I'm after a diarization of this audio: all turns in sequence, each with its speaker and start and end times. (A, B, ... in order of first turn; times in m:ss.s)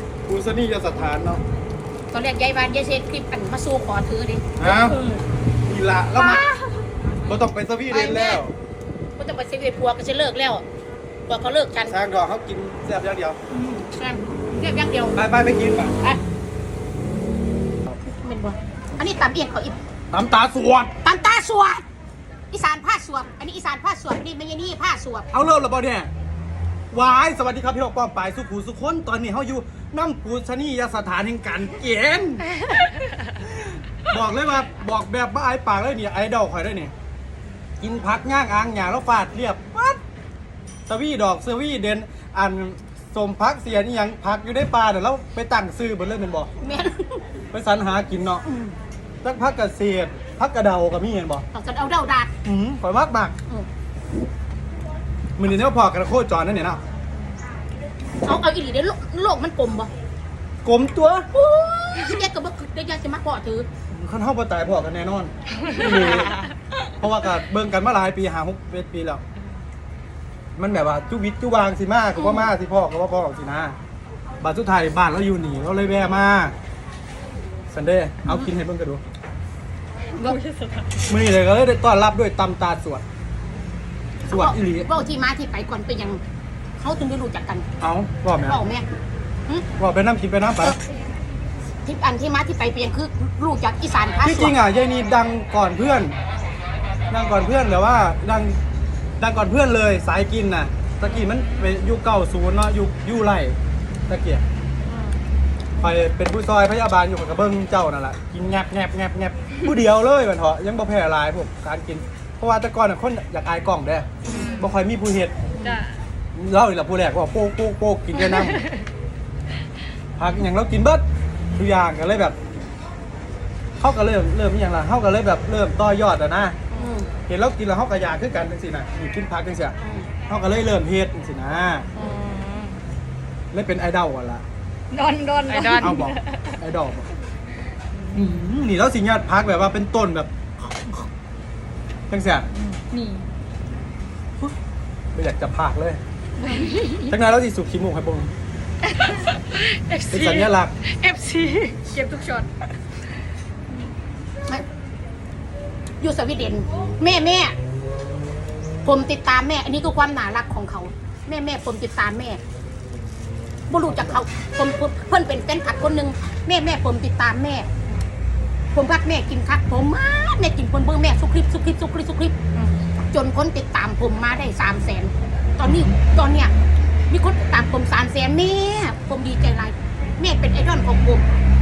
0:00.3-0:01.4 A
0:02.1-0:04.5 B
0:04.6-0:05.0 A
0:04.8-0:05.2 C
0:05.6-0:06.4 A
0:06.2-0:06.6 C
0:07.2-0:08.5 A
0:08.0-0:08.3 B
0:09.2-0:10.6 B
0:11.3-0:12.0 B
0:11.9-0:13.4 A
0:13.5-0:15.2 B
0:15.1-0:16.0 A
0:18.0-0:19.7 B
0:20.1-0:20.9 A
0:21.0-0:21.8 B
0:22.5-0:25.3 B
0:25.3-0:26.1 A
0:26.9-0:32.5 A
0:33.4-0:36.9 A
0:37.8-0:40.0 A
0:40.9-0:46.5 A
0:46.6-0:47.2 B
0:47.5-0:48.4 A
0:48.4-0:48.7 B
0:49.2-0:51.4 A
0:51.5-0:52.3 B
0:52.4-0:53.4 A
0:55.4-0:56.8 A
0:58.2-0:59.9 B
1:00.6-1:01.3 A
1:01.3-1:03.7 B
1:03.9-1:06.4 A
1:07.0-1:09.2 A
1:10.6-1:13.8 A
1:14.4-1:16.5 A
1:17.7-1:19.0 A
1:20.2-1:20.9 C
1:21.1-1:23.0 A
1:24.2-1:24.9 A
1:24.3-1:26.2 B
1:26.8-1:27.7 B
1:27.8-1:28.6 A
1:28.4-1:28.8 B
1:29.8-1:30.8 A
1:31.8-1:34.5 B
1:34.2-1:36.1 A
1:37.1-1:38.6 A
1:39.2-1:43.6 A
1:44.1-1:44.4 A
1:45.8-1:55.3 A
1:54.3-1:54.7 C
1:55.6-1:55.8 B
1:55.6-1:56.0 C
1:56.3-1:58.6 A
1:58.3-1:58.8 C
2:00.2-2:01.0 A
2:01.6-2:02.4 A
2:03.8-2:06.6 A
2:06.7-2:07.1 B
2:07.3-2:09.8 A
2:09.8-2:10.1 B
2:10.3-2:11.9 A
2:12.0-2:12.8 C
2:13.5-2:14.4 A
2:14.9-2:16.5 C
2:15.8-2:17.1 A
2:18.1-2:21.0 A
2:22.1-2:22.5 A
2:22.6-2:23.2 C
2:25.1-2:26.0 A
2:26.4-2:27.1 C
2:27.0-2:28.3 A
2:28.8-2:32.5 C
2:30.1-2:30.7 A
2:36.0-2:37.5 B
2:38.8-2:42.4 B
2:43.7-2:47.7 B
2:43.9-2:44.2 A
2:48.7-2:52.5 B
2:53.1-2:56.5 B
2:55.6-2:56.0 A
2:57.1-3:01.2 B